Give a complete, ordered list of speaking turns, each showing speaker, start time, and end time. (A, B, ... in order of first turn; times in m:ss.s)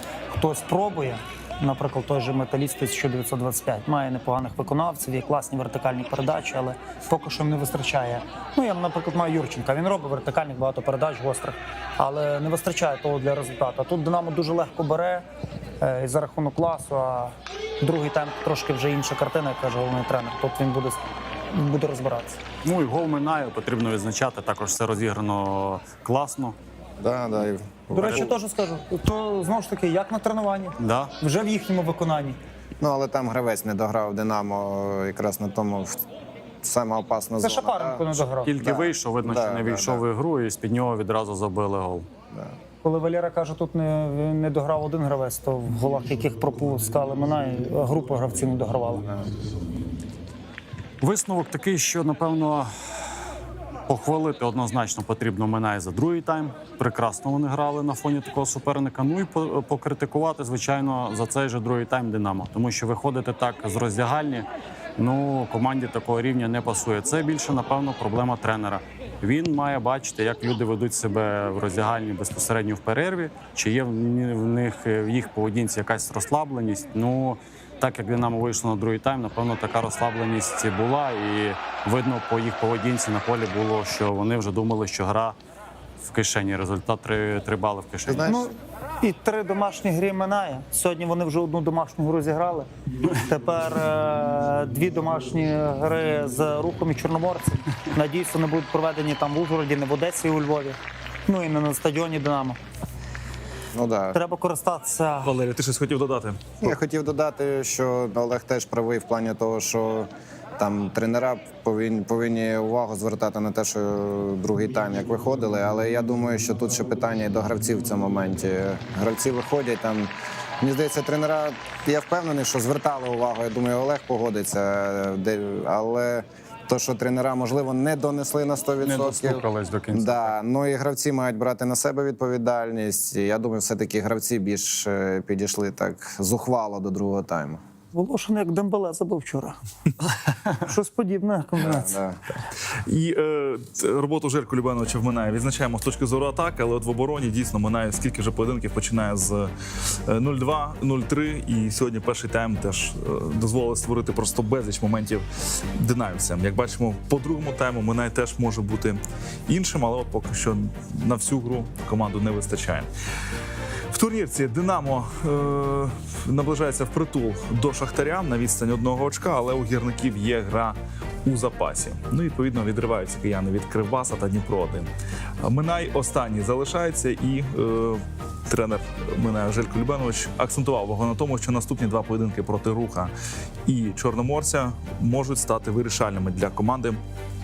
0:00.3-0:15.3 A
0:15.8-0:22.4 A
0:22.6-0:26.6 B
0:27.0-0:28.3 C
0:27.9-0:32.4 A
0:28.0-0:28.3 B
0:30.8-0:31.1 B
0:32.8-0:36.0 C
0:36.6-0:40.0 C
0:37.4-0:38.5 A
0:38.4-0:42.1 B
0:42.8-0:49.1 A
0:51.0-0:52.7 B
0:53.9-1:25.4 B
1:26.0-1:28.3 B
1:28.1-1:28.5 C
1:28.2-1:42.6 A
1:43.7-1:44.2 C
1:44.1-1:45.3 A
1:45.2-1:46.4 D
1:46.6-2:17.6 C
2:08.8-2:10.3 B
2:17.9-2:19.6 A
2:20.6-2:22.0 A
2:21.6-2:22.2 C
2:22.8-2:29.5 D
2:30.1-2:42.9 D
2:43.9-2:54.9 D
2:55.4-3:03.1 D
3:03.6-3:07.0 D